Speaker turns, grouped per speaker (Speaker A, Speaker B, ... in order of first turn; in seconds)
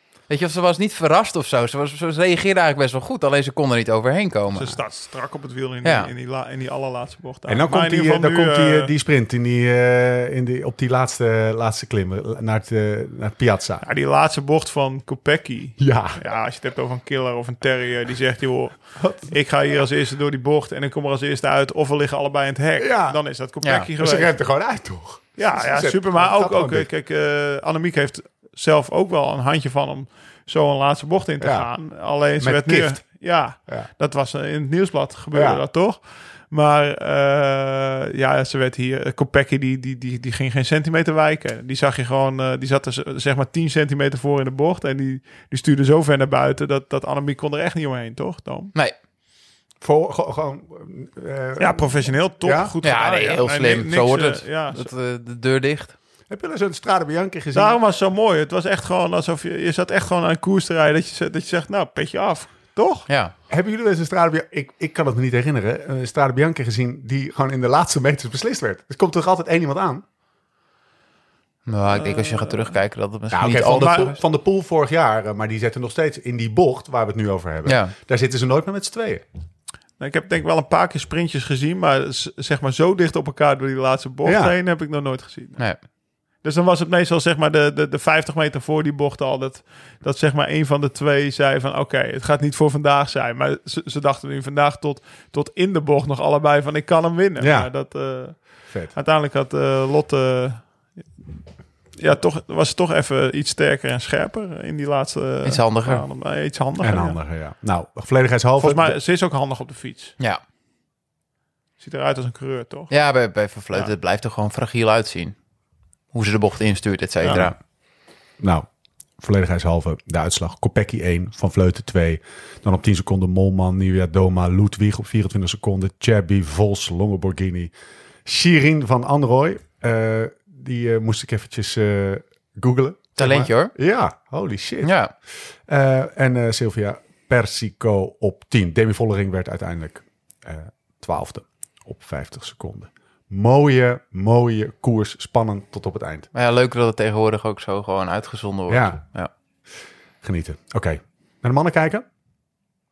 Speaker A: 0.3-4.9, 5.8-6.1, 23.6-23.9, 52.8-56.0, 63.1-63.3, 71.7-74.2, 77.6-77.9, 105.4-106.0, 112.9-115.4, 116.1-117.5, 133.2-133.7, 134.8-135.1, 146.3-149.3
Speaker B: 4.5-8.9, 13.8-24.3, 25.4-48.7, 51.6-54.9, 57.5-63.1, 71.9-72.8, 73.7-74.1, 80.0-85.9, 86.4-101.1, 101.9-107.2, 108.6-110.1, 111.8-112.9, 117.2-117.5
Speaker C: 7.5-13.8, 15.8-16.2, 22.8-23.2, 24.0-26.9, 31.4-31.7, 32.4-33.0, 35.3-35.6, 49.8-52.7, 56.3-57.8, 63.5-70.0, 73.3-79.2, 84.2-84.5, 97.4-97.7, 98.7-98.9, 106.8-109.0, 118.4-118.7, 119.2-127.7, 128.2-146.3, 148.7-149.0, 150.2-152.1